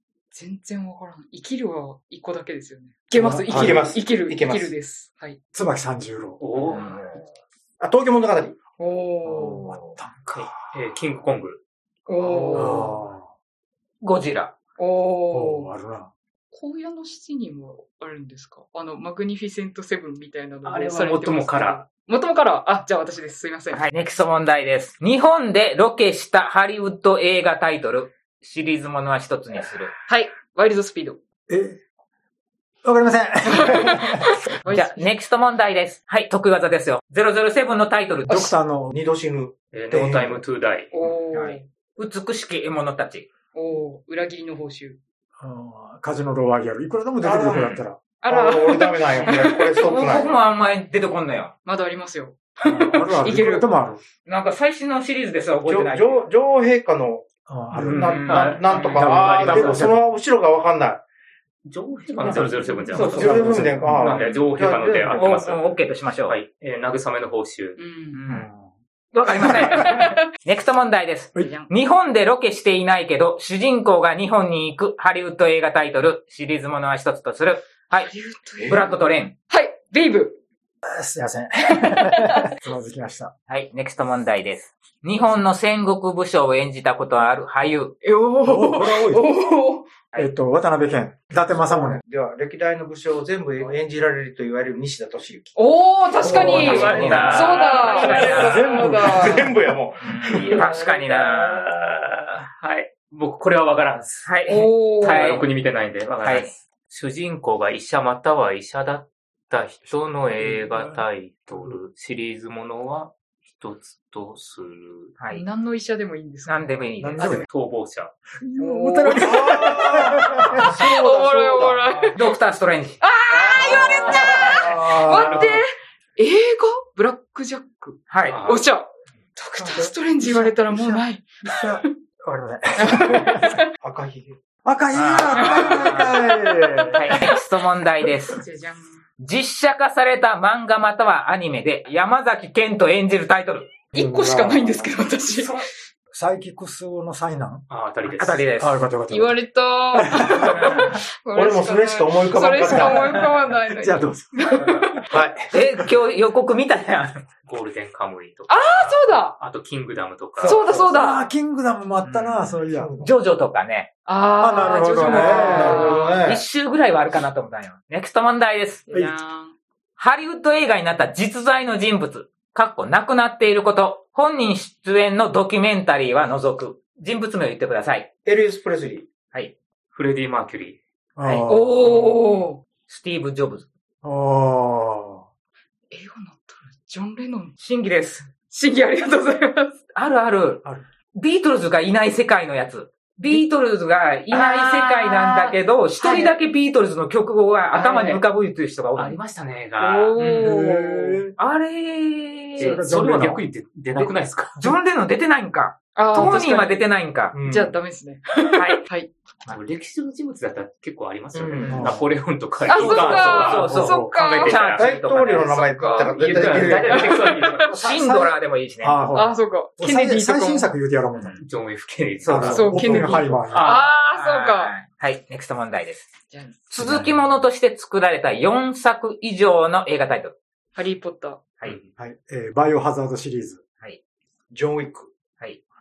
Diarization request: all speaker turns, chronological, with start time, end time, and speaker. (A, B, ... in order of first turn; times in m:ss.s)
0:00.3-0:05.4 A
0:03.2-0:04.0 B
0:03.5-0:04.7 C
0:05.5-0:06.4 B
0:06.4-0:06.9 D
0:06.6-0:07.2 E
0:07.8-0:08.6 C
0:08.8-0:09.7 A
0:09.4-0:10.8 B
0:09.4-0:10.0 E
0:10.3-0:11.6 D
0:12.1-0:13.1 A
0:12.5-0:13.3 B
0:14.0-0:14.5 E
0:14.8-0:15.7 A
0:15.3-0:16.1 B
0:16.5-0:23.9 A
0:20.6-0:21.8 D
0:23.7-0:29.9 E
0:30.1-0:31.2 A
0:31.5-0:31.8 B
0:32.8-0:34.4 B
0:33.5-0:35.1 A
0:34.7-0:38.5 E
0:38.3-0:38.9 B
0:38.9-0:40.4 C
0:39.7-0:40.9 D
0:40.9-0:41.6 A
0:41.3-0:43.3 E
0:43.5-0:45.0 A
0:45.4-0:48.0 B
0:47.2-0:50.4 C
0:48.2-0:49.7 A
0:49.3-0:51.5 E
0:51.6-0:53.6 A
0:52.6-0:54.0 B
0:54.2-0:56.2 E
0:55.7-0:57.3 C
0:57.5-0:58.4 B
0:57.7-1:00.0 D
0:57.8-1:01.0 C
0:58.0-0:58.8 E
0:58.9-1:00.0 B
1:01.7-1:05.7 D
1:02.2-1:03.4 E
1:02.2-1:05.4 C
1:02.2-1:04.3 B
1:05.2-1:06.4 E
1:06.3-1:07.8 D
1:07.8-1:08.2 A
1:08.1-1:08.5 E
1:08.3-1:08.7 B
1:09.1-1:18.1 E
1:09.5-1:10.2 A
1:11.4-1:11.7 A
1:18.0-1:18.9 A
1:18.6-1:18.9 C
1:18.7-1:19.4 E
1:19.5-1:20.4 A
1:20.8-1:23.3 B
1:21.8-1:22.4 A
1:23.5-1:28.0 E
1:28.0-1:29.9 A
1:28.4-1:29.3 B
1:30.2-1:32.0 B
1:31.5-1:35.6 C
1:35.6-1:39.6 A
1:36.2-1:39.4 B
1:36.2-1:38.6 D
1:36.3-1:37.2 C
1:36.7-1:38.6 E
1:38.2-1:40.6 C
1:40.0-1:41.7 E
1:40.2-1:55.2 D
1:44.2-1:45.5 E
1:44.5-1:45.3 A
1:46.2-1:46.5 E
1:50.7-1:51.0 B
1:55.2-1:55.4 E
1:55.3-1:56.7 A
1:56.5-1:57.5 E
1:57.0-1:57.5 B
1:57.2-1:58.1 D
1:58.4-2:00.8 B
1:58.6-2:02.2 A
1:59.2-2:02.2 C
2:02.1-2:03.0 E
2:03.0-2:11.9 A
2:03.6-2:05.4 B
2:03.7-2:04.5 E
2:04.0-2:04.2 D
2:04.0-2:04.5 C
2:05.0-2:05.6 D
2:08.1-2:08.4 E
2:08.3-2:08.6 D
2:09.6-2:13.5 B
2:12.8-2:13.7 A
2:13.8-2:14.4 C
2:14.6-2:17.2 B
2:14.9-2:16.1 E
2:15.3-2:17.2 A
2:17.0-2:18.4 E
2:18.3-2:19.0 A
2:19.2-2:23.7 E
2:23.9-2:25.6 A
2:24.0-2:24.9 B
2:26.1-2:27.6 B
2:27.7-2:28.5 D
2:28.0-2:28.8 E
2:28.6-2:29.4 B
2:29.1-2:35.1 A
2:29.9-2:30.6 B
2:31.4-2:33.2 C
2:32.7-2:34.6 B
2:35.1-2:35.5 C
2:35.5-2:37.2 E
2:37.5-2:40.6 D
2:38.5-2:39.4 A
2:40.4-2:41.3 A
2:40.4-2:42.9 B
2:42.0-2:43.9 E
2:42.7-2:43.1 C
2:44.1-2:46.2 A
2:44.4-2:45.9 B
2:44.9-2:48.8 E
2:45.6-2:46.4 C
2:48.9-2:49.6 A
2:50.0-2:58.1 E
2:58.2-2:59.1 C
2:59.9-3:00.8 D
3:01.2-3:01.9 B
3:01.2-3:01.5 E
3:01.5-3:02.6 A
3:02.9-3:03.7 E
3:04.0-3:05.2 B
3:05.9-3:07.6 A
3:07.6-3:08.3 E
3:08.5-3:09.8 A
3:10.0-3:10.6 E
3:11.2-3:19.2 E
3:14.3-3:15.6 D
3:15.2-3:16.4 A
3:17.7-3:18.2 A
3:19.0-3:20.2 D
3:19.8-3:21.2 A
3:20.2-3:20.6 E
3:20.4-3:21.4 B
3:21.4-3:22.8 E
3:22.6-3:24.7 D
3:22.6-3:23.4 B
3:24.0-3:27.4 E
3:26.0-3:26.9 A
3:27.3-3:27.8 C
3:27.4-3:29.1 A
3:28.5-3:28.8 E
3:29.5-3:34.9 D
3:31.3-3:31.8 C
3:31.6-3:31.9 E
3:31.7-3:32.1 B
3:32.7-3:34.6 A
3:32.7-3:33.7 C
3:33.1-3:37.1 E
3:33.6-3:34.1 B
3:34.6-3:37.2 C
3:35.7-3:38.0 A
3:36.4-3:37.7 D
3:37.6-3:39.0 E
3:37.8-3:38.1 C
3:38.8-3:41.4 B
3:39.1-3:40.7 A
3:41.4-3:43.9 D
3:42.2-3:42.7 E
3:42.2-3:43.8 B
3:42.4-3:44.8 A
3:44.1-3:46.1 E
3:46.3-3:46.7 A
3:46.7-3:50.4 E
3:46.8-3:47.3 B
3:50.8-3:51.5 A
3:52.0-3:53.6 B
3:54.5-3:55.1 C